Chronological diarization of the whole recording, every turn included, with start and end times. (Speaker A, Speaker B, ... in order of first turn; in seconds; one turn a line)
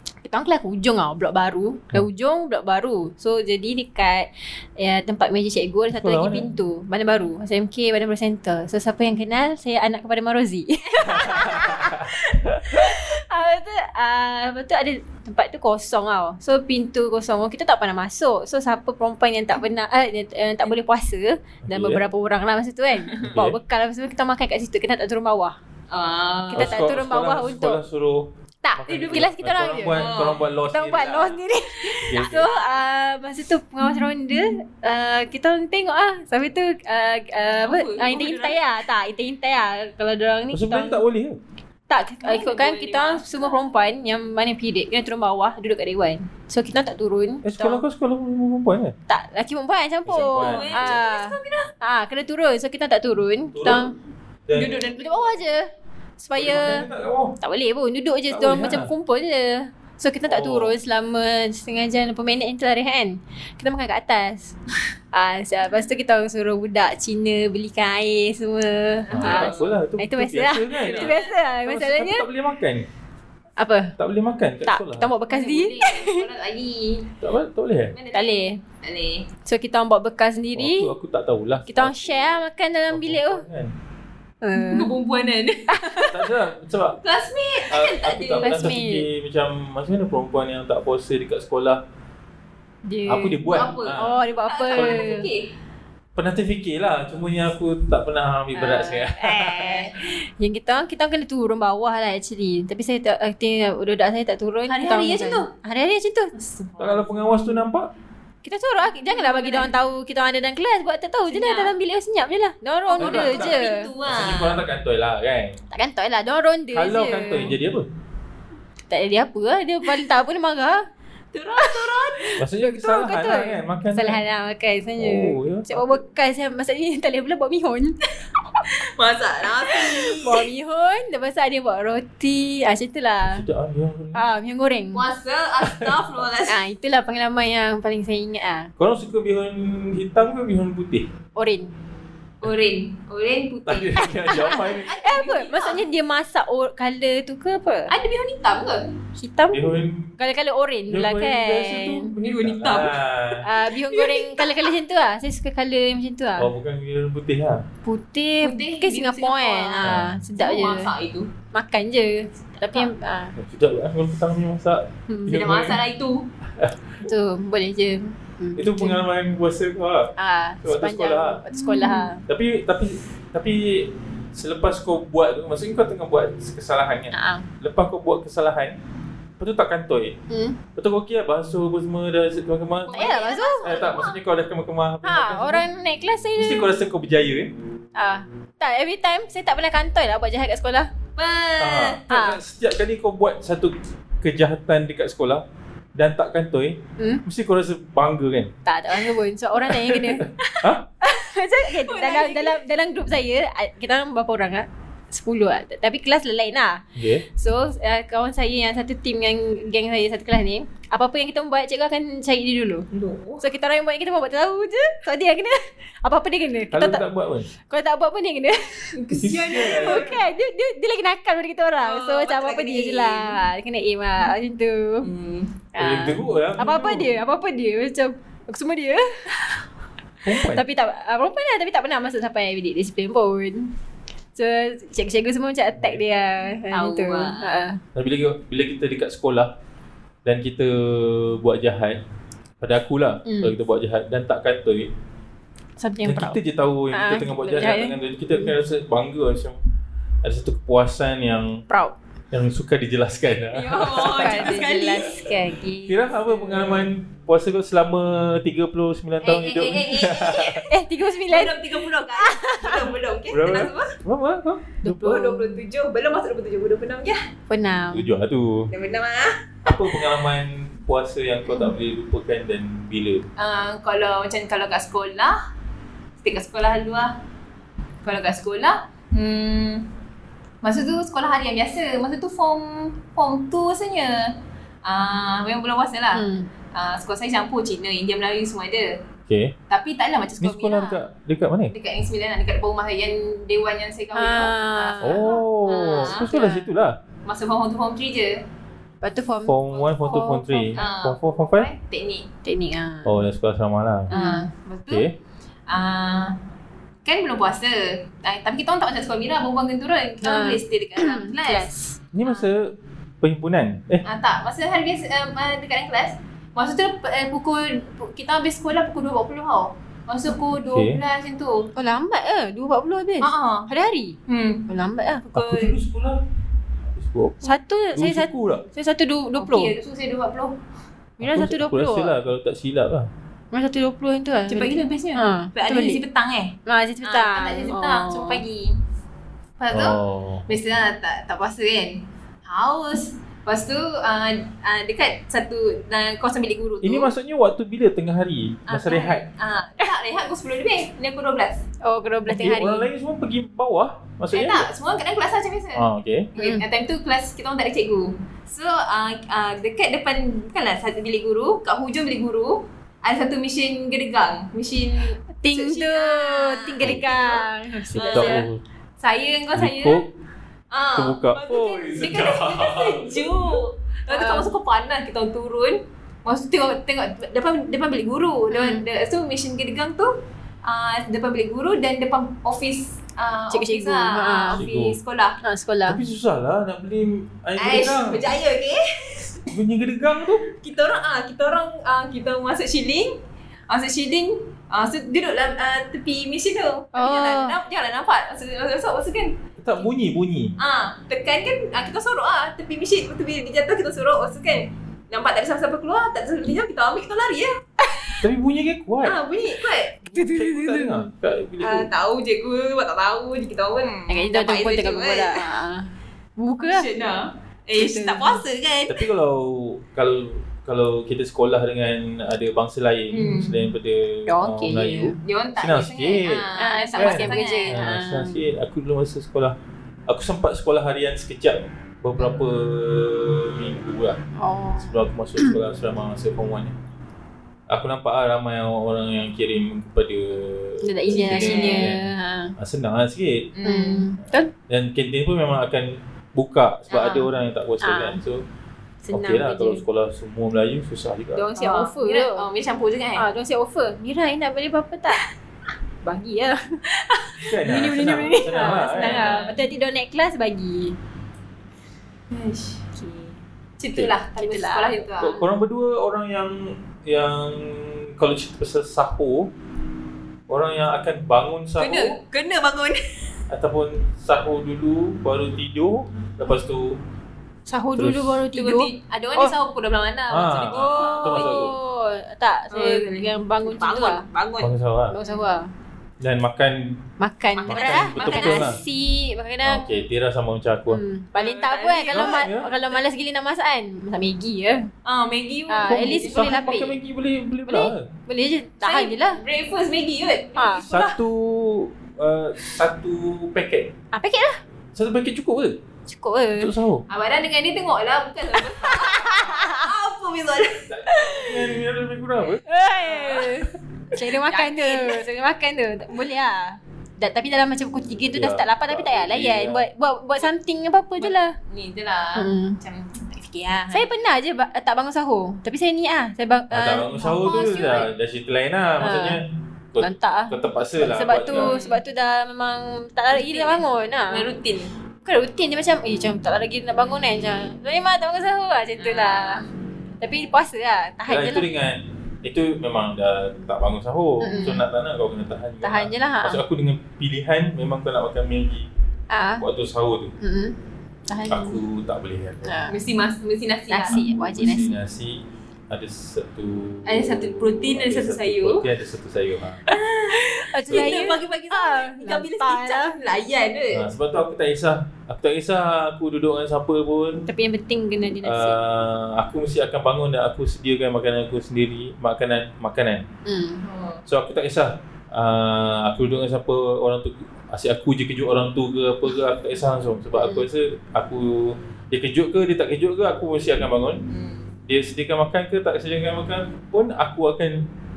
Speaker A: 0.2-12.0
Speaker B: 5.9-6.5
Speaker B: 11.1-12.8
Speaker A: 12.6-25.6
Speaker B: 21.7-22.0
Speaker B: 23.2-23.6
Speaker C: 25.9-26.8
Speaker A: 26.5-27.8
Speaker B: 26.6-31.4
Speaker A: 28.6-30.1
Speaker C: 28.9-30.4
Speaker A: 30.7-41.0
Speaker C: 31.9-32.8
Speaker B: 32.1-32.4
Speaker C: 37.6-38.6
Speaker B: 40.5-41.4
Speaker A: 41.9-47.8
Speaker C: 42.2-43.7
Speaker B: 47.4-48.9
Speaker A: 49.1-53.9
Speaker B: 50.0-51.0
Speaker C: 50.4-51.7
Speaker B: 53.5-53.9
Speaker B: 54.5-54.8
Speaker C: 54.5-55.4
Speaker A: 55.0-56.9
Speaker B: 56.3-57.3
Speaker A: 57.4-64.5
Speaker B: 58.3-58.9
Speaker B: 60.3-60.7
Speaker A: 65.1-72.3
Speaker C: 69.1-69.8
Speaker B: 69.1-72.8
Speaker C: 70.7-71.3
Speaker A: 73.6-73.9
Speaker B: 74.0-75.1
Speaker A: 74.7-76.2
Speaker C: 75.3-77.1
Speaker B: 77.2-78.0
Speaker C: 77.9-79.3
Speaker A: 78.1-78.6
Speaker A: 79.5-80.9
Speaker B: 80.5-83.7
Speaker A: 81.7-83.4
Speaker A: 84.4-84.9
Speaker C: 84.5-86.1
Speaker A: 85.7-86.1
Speaker B: 86.1-87.0
Speaker C: 87.0-88.6
Speaker B: 87.7-91.8
Speaker A: 88.4-89.0
Speaker A: 92.8-95.2
Speaker B: 93.1-95.0
Speaker C: 93.5-94.0
Speaker C: 94.5-95.5
Speaker B: 96.2-99.7
Speaker A: 98.5-106.3
Speaker C: 99.6-99.9
Speaker C: 104.7-105.5
Speaker C: 106.3-107.1
Speaker B: 106.8-107.9
Speaker A: 108.4-113.9
Speaker C: 108.9-109.7
Speaker C: 111.3-111.7
Speaker C: 112.9-114.6
Speaker B: 113.0-115.6
Speaker A: 115.7-117.5
Speaker B: 116.7-117.9
Speaker A: 118.9-120.8
Speaker C: 121.3-122.3
Speaker A: 121.6-128.0
Speaker B: 122.4-124.2
Speaker B: 125.0-126.0
Speaker C: 128.9-130.4
Speaker A: 129.7-133.4
Speaker B: 133.3-134.2
Speaker A: 134.1-135.0
Speaker C: 134.9-136.6
Speaker B: 135.6-136.1
Speaker A: 136.5-138.7
Speaker B: 138.8-141.1
Speaker A: 141.3-141.7
Speaker C: 142.4-145.8
Speaker B: 143.7-145.0
Speaker A: 144.3-147.9
Speaker C: 147.9-148.9
Speaker A: 149.2-152.1
Speaker B: 149.5-150.1
Speaker B: 150.9-153.4
Speaker C: 152.1-153.0
Speaker A: 153.4-156.5
Speaker C: 153.9-154.7
Speaker B: 156.4-157.6
Speaker A: 157.8-160.9
Speaker C: 158.4-161.3
Speaker B: 159.8-160.2
Speaker A: 161.5-163.3
Speaker B: 163.4-165.8
Speaker A: 165.1-165.4
Speaker C: 165.3-166.2
Speaker B: 166.6-167.0
Speaker A: 167.0-169.0
Speaker B: 168.6-170.1
Speaker A: 170.2-172.2
Speaker B: 170.6-171.4
Speaker C: 171.5-172.1
Speaker B: 172.3-178.8
Speaker A: 177.1-177.5
Speaker B: 179.4-180.1
Speaker A: 180.3-180.6
Speaker B: 180.8-183.1
Speaker C: 182.9-184.2
Speaker A: 182.9-183.7
Speaker B: 183.6-185.6
Speaker A: 185.0-186.7
Speaker B: 186.4-187.5
Speaker A: 187.9-190.9
Speaker C: 191.2-192.0
Speaker B: 191.6-195.4
Speaker A: 192.1-192.4
Speaker B: 195.9-198.5
Speaker A: 197.0-197.2
Speaker A: 198.7-206.8
Speaker B: 199.6-200.8
Speaker C: 201.8-202.6
Speaker B: 206.9-207.2
Speaker A: 207.4-212.8
Speaker C: 212.9-213.4
Speaker A: 213.4-217.0
Speaker B: 216.7-217.5
Speaker A: 217.7-219.0
Speaker C: 218.9-220.2
Speaker B: 219.2-220.1
Speaker A: 219.5-225.1
Speaker C: 221.8-223.4
Speaker C: 225.0-225.5
Speaker A: 225.7-229.5
Speaker B: 225.8-227.1
Speaker B: 230.2-230.6
Speaker A: 230.3-233.7
Speaker A: 234.3-237.8
Speaker C: 236.7-237.6
Speaker B: 237.9-239.5
Speaker B: 240.2-242.0
Speaker B: 242.6-244.9
Speaker A: 243.2-243.5
Speaker A: 245.8-246.4
Speaker B: 246.0-249.6
Speaker A: 246.9-248.5
Speaker B: 250.2-251.6
Speaker A: 251.7-251.9
Speaker B: 252.3-254.6
Speaker C: 253.5-255.2
Speaker A: 254.1-256.8
Speaker B: 255.9-260.6
Speaker C: 259.2-260.6
Speaker A: 260.7-261.6
Speaker C: 261.3-263.9
Speaker A: 262.2-262.9
Speaker B: 263.3-265.2
Speaker A: 264.8-265.5
Speaker C: 264.9-267.2
Speaker A: 267.5-268.0
Speaker B: 267.9-268.7
Speaker C: 268.7-270.0
Speaker B: 269.6-273.3
Speaker C: 273.4-275.4
Speaker C: 276.2-277.1
Speaker C: 278.0-279.9
Speaker C: 280.6-289.0
Speaker A: 286.1-286.5
Speaker B: 289.3-289.5
Speaker C: 289.7-291.0
Speaker B: 290.4-291.7
Speaker C: 291.7-296.3
Speaker A: 294.1-296.7
Speaker B: 295.0-297.0
Speaker C: 297.2-298.4
Speaker A: 299.0-300.8
Speaker B: 299.4-301.7
Speaker C: 300.7-302.3
Speaker A: 302.4-303.2
Speaker B: 303.0-304.1
Speaker A: 304.1-304.5
Speaker C: 304.1-305.1
Speaker C: 305.7-306.4
Speaker C: 307.0-311.7
Speaker A: 310.2-311.9
Speaker B: 312.1-314.0
Speaker C: 314.0-321.7
Speaker B: 320.6-321.0
Speaker A: 321.8-324.2
Speaker C: 323.2-323.7
Speaker C: 324.3-324.7
Speaker A: 324.7-325.3
Speaker C: 325.3-325.8
Speaker B: 325.3-326.2
Speaker B: 326.9-328.6
Speaker A: 327.4-329.7
Speaker C: 329.4-330.6
Speaker A: 331.2-332.1
Speaker B: 331.2-333.1
Speaker A: 333.5-336.0
Speaker C: 334.5-338.7
Speaker A: 336.6-338.4
Speaker C: 339.6-347.1
Speaker B: 339.7-340.5
Speaker B: 346.8-349.2
Speaker C: 348.7-351.6
Speaker A: 351.8-352.9
Speaker B: 352.3-354.7
Speaker C: 354.3-367.4
Speaker B: 355.7-356.3
Speaker A: 356.4-356.6
Speaker A: 365.4-368.4
Speaker C: 367.9-368.4
Speaker B: 368.0-368.6
Speaker C: 369.0-370.0
Speaker B: 369.5-370.1
Speaker C: 370.7-380.1
Speaker B: 370.9-373.6
Speaker A: 374.1-374.5
Speaker A: 378.5-378.8
Speaker C: 380.6-385.4
Speaker A: 383.5-384.6
Speaker B: 384.5-384.9
Speaker A: 385.4-386.0
Speaker B: 385.9-388.2
Speaker C: 387.6-389.4
Speaker B: 389.5-390.4
Speaker C: 390.5-393.2
Speaker C: 393.7-399.3
Speaker A: 396.9-397.5
Speaker B: 399.6-400.5
Speaker C: 400.6-407.6
Speaker B: 408.2-409.2
Speaker C: 409.0-410.0
Speaker A: 410.1-411.1
Speaker B: 410.1-411.9
Speaker C: 411.6-415.4
Speaker A: 414.1-416.8
Speaker C: 416.7-419.0
Speaker A: 417.8-418.4
Speaker B: 418.9-426.4
Speaker C: 423.1-423.6
Speaker A: 424.3-425.1
Speaker C: 425.2-427.8
Speaker A: 426.6-428.4
Speaker B: 427.0-429.5
Speaker B: 430.1-434.2
Speaker A: 434.4-435.5
Speaker B: 434.8-436.8
Speaker B: 437.7-442.0
Speaker A: 440.8-442.5
Speaker C: 441.1-441.9
Speaker B: 442.6-443.5
Speaker C: 443.5-444.0
Speaker A: 443.6-444.5
Speaker B: 444.7-448.4
Speaker C: 446.9-447.2
Speaker A: 447.8-448.2
Speaker A: 449.0-449.8
Speaker B: 449.1-451.4
Speaker A: 451.4-452.4
Speaker C: 451.6-453.2
Speaker A: 453.1-455.2
Speaker A: 456.0-461.0
Speaker B: 457.4-459.3
Speaker C: 458.8-459.5
Speaker C: 462.3-462.9
Speaker A: 463.0-463.3
Speaker C: 463.8-465.4
Speaker A: 464.4-465.0
Speaker B: 465.2-469.5
Speaker B: 470.5-472.1
Speaker C: 471.8-473.0
Speaker B: 473.5-477.0
Speaker A: 477.7-479.5
Speaker B: 477.9-478.4
Speaker C: 478.5-481.7
Speaker B: 480.3-481.7
Speaker A: 480.7-484.2
Speaker C: 482.7-484.7
Speaker B: 484.6-485.1
Speaker A: 485.1-485.7
Speaker B: 486.2-486.9
Speaker A: 487.2-489.9
Speaker C: 487.6-488.8
Speaker B: 487.7-488.8
Speaker B: 489.6-491.0
Speaker A: 490.9-494.9
Speaker C: 491.4-493.0
Speaker B: 492.1-492.7
Speaker C: 495.0-496.4
Speaker A: 495.7-496.9
Speaker B: 495.9-498.1
Speaker A: 497.7-499.4
Speaker C: 498.8-501.2
Speaker A: 500.6-500.9
Speaker B: 500.9-503.9
Speaker A: 504.1-504.6
Speaker B: 504.9-505.8
Speaker A: 506.1-506.7
Speaker B: 506.6-507.0
Speaker C: 507.1-510.8
Speaker A: 508.8-509.9
Speaker B: 510.9-512.6
Speaker A: 511.1-511.5
Speaker A: 512.7-521.5
Speaker C: 513.0-513.7
Speaker C: 514.4-515.2
Speaker B: 518.3-519.8
Speaker C: 521.2-524.1
Speaker A: 522.4-522.8
Speaker A: 523.9-528.0
Speaker B: 526.7-531.7
Speaker C: 527.6-528.0
Speaker A: 529.0-529.4
Speaker A: 530.0-534.4
Speaker C: 531.5-532.0
Speaker C: 533.3-534.9
Speaker A: 535.2-539.6
Speaker C: 539.0-539.7
Speaker A: 540.2-541.6
Speaker B: 541.3-548.9
Speaker A: 544.4-544.8
Speaker A: 545.8-546.6
Speaker A: 549.3-549.6
Speaker B: 549.6-550.3
Speaker A: 550.4-550.7
Speaker A: 551.3-551.8
Speaker B: 551.5-552.8
Speaker A: 552.6-552.9
Speaker C: 552.9-554.2
Speaker A: 553.9-555.0
Speaker B: 554.1-559.9
Speaker C: 557.0-558.9
Speaker C: 559.9-564.1
Speaker A: 560.5-563.1
Speaker B: 560.9-561.2
Speaker B: 563.9-567.5
Speaker A: 567.5-568.8
Speaker B: 568.4-573.2
Speaker A: 573.5-573.8
Speaker C: 573.8-574.2
Speaker B: 574.3-584.2
Speaker A: 580.4-580.6
Speaker C: 584.3-584.7
Speaker B: 584.9-587.9